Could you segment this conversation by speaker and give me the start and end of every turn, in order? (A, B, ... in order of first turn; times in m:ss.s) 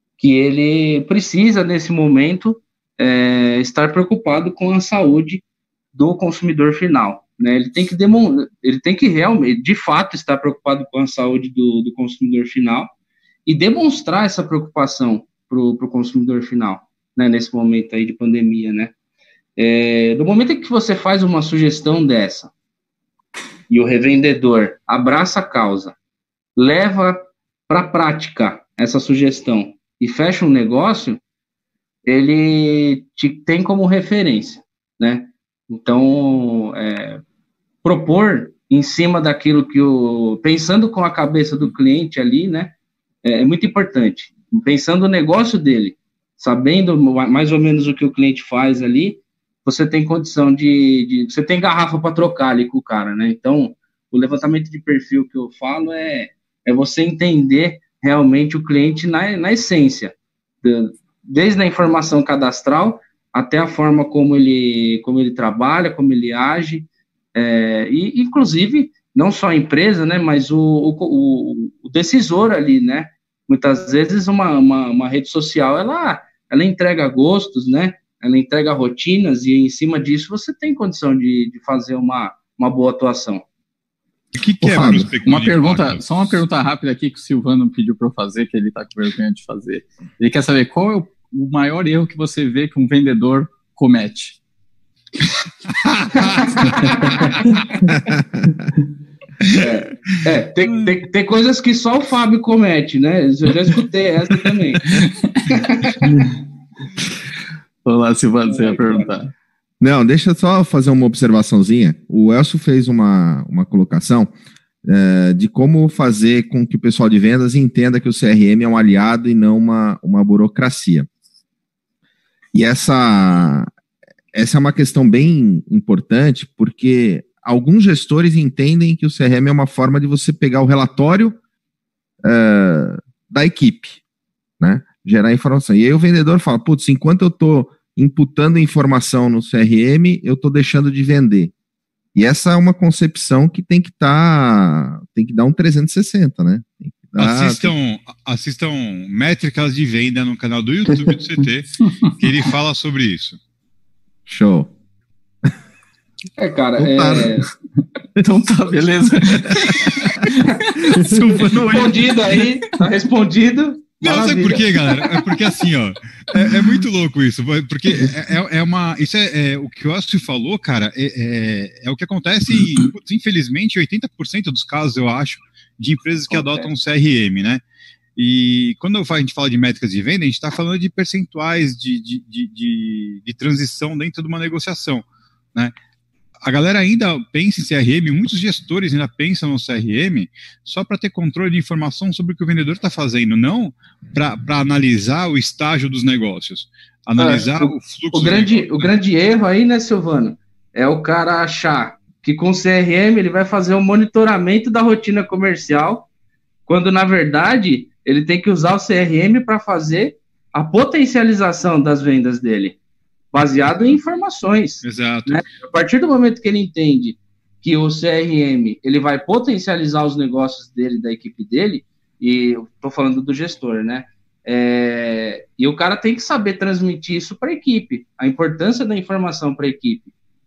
0:00.2-0:05.4 A
0:05.9-0:12.9 A
0:13.4-0:18.9 A
0:19.6-0:22.5 A
0:23.7-0:25.9 A
0:26.6-0:31.2 A
0:32.0-0:37.2 A
0:37.8-0:42.7 A
0:43.2-1:23.4 A
1:24.3-1:26.4 B
1:24.6-1:25.1 C
1:24.8-1:34.4 D
1:35.8-1:36.6 B
1:36.2-1:37.3 A
1:37.9-1:38.6 C
1:39.5-1:45.0 A
1:44.9-1:45.6 D
1:45.5-1:46.0 A
1:47.8-1:49.3 D
1:48.4-1:49.1 A
1:49.8-1:54.3 C
1:54.8-2:01.1 C
2:02.5-2:03.7 C
2:04.3-2:11.4 C
2:12.2-2:14.0 C
2:14.6-2:21.5 C
2:22.1-2:27.7 C
2:27.2-2:33.4 B
2:34.3-2:34.7 C
2:36.4-2:37.5 A
2:36.8-2:37.4 C
2:38.2-2:41.0 D
2:39.5-2:39.9 C
2:40.8-2:42.2 C
2:41.5-2:44.7 A
2:44.0-2:57.6 B
2:56.3-2:56.7 A
2:58.2-3:05.7 B
3:06.4-3:18.9 B
3:17.2-3:26.1 A
3:26.7-3:32.8 A
3:33.3-3:50.1 A
3:34.8-3:35.4 B